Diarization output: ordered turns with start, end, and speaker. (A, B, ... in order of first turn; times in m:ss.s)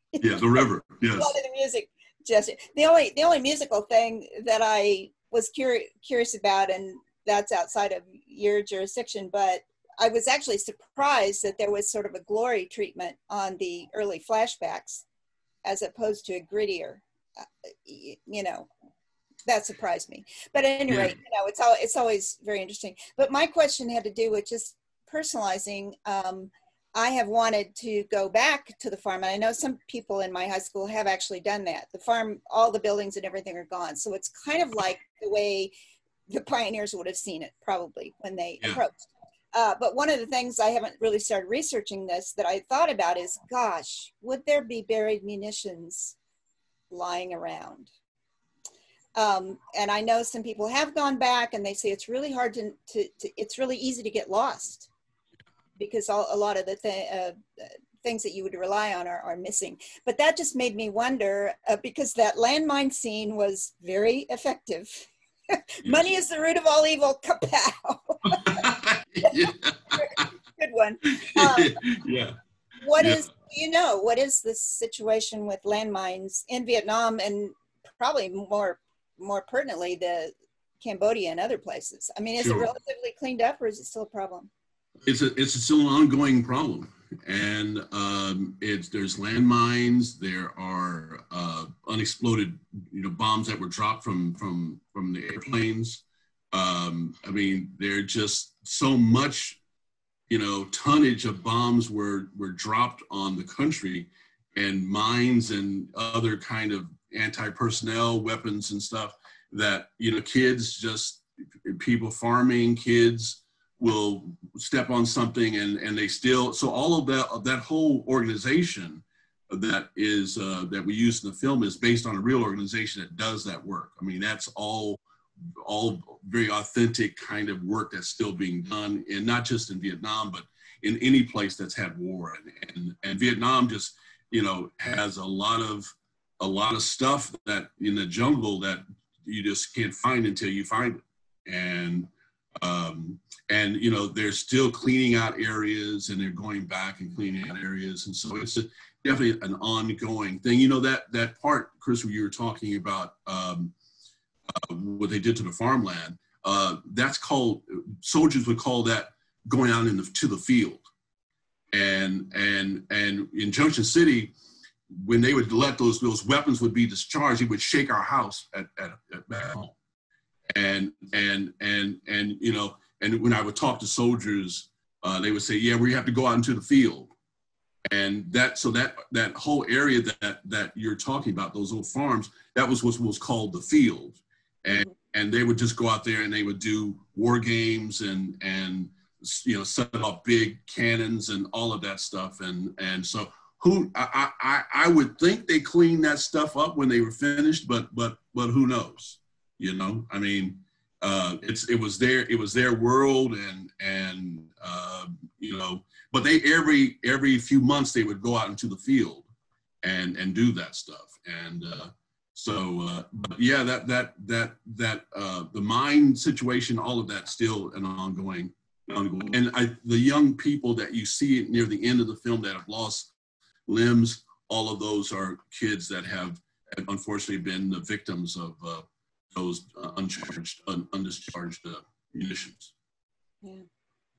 0:00.1-0:00.6 A
0:00.2-0:01.4 B
0:01.1-0:15.0 A
0:15.6-0:17.0 A
0:17.8-0:18.7 A
0:19.4-0:35.7 A
0:20.9-0:21.2 B
0:36.3-0:46.2 A
0:46.9-0:47.9 A
0:49.2-0:54.9 A
0:55.8-0:57.4 A
0:58.0-1:05.0 A
1:05.8-1:08.6 A
1:05.8-1:06.2 B
1:08.3-1:10.2 B
1:09.9-1:11.8 A
1:11.2-1:12.4 B
1:12.8-1:24.5 A
1:13.0-1:13.3 B
1:22.4-1:22.7 B
1:25.0-1:39.6 B
1:40.3-2:05.0 B
2:05.6-2:22.1 B
2:22.6-2:33.7 B
2:34.6-2:40.9 B
2:41.7-2:44.3 B
2:44.9-2:49.8 B
2:50.5-2:57.1 B
2:57.9-3:29.3 B
3:29.8-3:43.1 B
3:43.7-3:52.7 B